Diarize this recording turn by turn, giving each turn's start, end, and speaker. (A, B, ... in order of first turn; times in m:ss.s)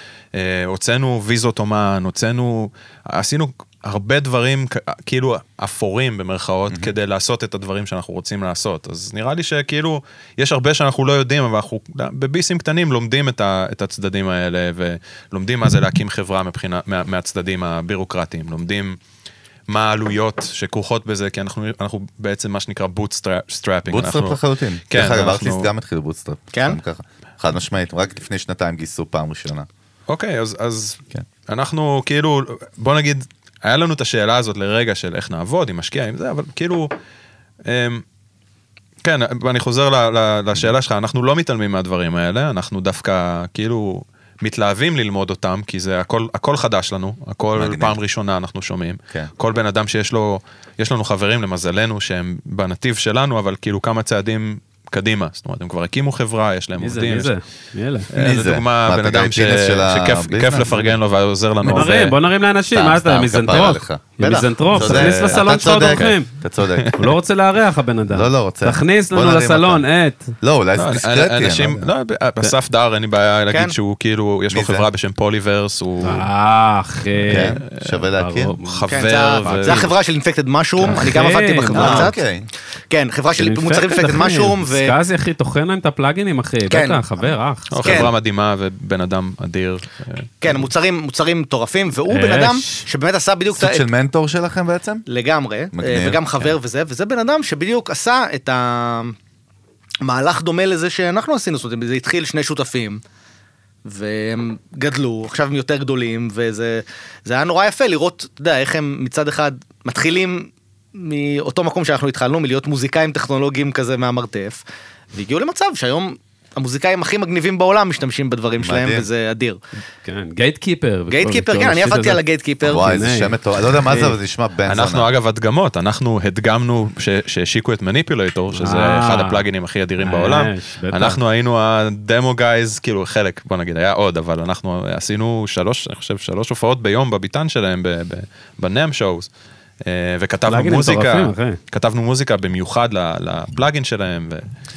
0:00.3-0:19.0 A
0:19.7-0:24.4 A
0:23.9-0:29.7 B
0:24.9-0:25.7 A
0:26.5-0:26.8 C
0:30.1-0:36.9 A
0:37.7-0:38.0 A
0:39.0-0:57.3 A
0:47.5-0:48.0 B
0:56.8-0:58.1 D
0:58.1-1:02.1 A
0:58.1-1:01.0 B
1:01.6-1:02.0 B
1:01.6-1:06.3 D
1:02.7-1:04.0 B
1:04.2-1:04.5 C
1:04.7-1:07.0 B
1:04.7-1:06.2 A
1:06.7-1:07.1 A
1:07.0-1:10.3 D
1:08.1-1:09.8 B
1:10.4-1:11.9 B
1:10.8-1:16.2 A
1:13.5-1:13.7 C
1:14.5-1:14.9 B
1:16.0-1:18.9 D
1:17.2-1:17.9 A
1:17.3-1:18.5 B
1:18.6-1:19.9 A
1:18.9-1:22.2 C
1:19.4-1:19.9 D
1:20.8-1:22.1 D
1:21.7-1:22.5 B
1:22.9-1:24.9 C
1:23.4-1:28.1 D
1:26.7-1:27.0 C
1:27.7-1:30.6 A
1:27.8-1:28.1 C
1:30.4-1:33.8 C
1:32.1-1:32.8 D
1:33.5-1:35.0 B
1:35.1-1:39.2 C
1:35.7-1:36.5 B
1:40.0-1:43.0 C
1:43.8-1:54.6 C
1:55.1-1:59.6 C
1:58.6-1:59.1 B
2:00.0-2:03.3 D
2:01.1-2:02.9 C
2:02.6-2:05.1 B
2:03.9-2:04.2 D
2:04.6-2:19.3 A
2:08.5-2:09.5 D
2:10.0-2:11.2 D
2:19.8-2:24.5 A
2:20.5-2:21.6 D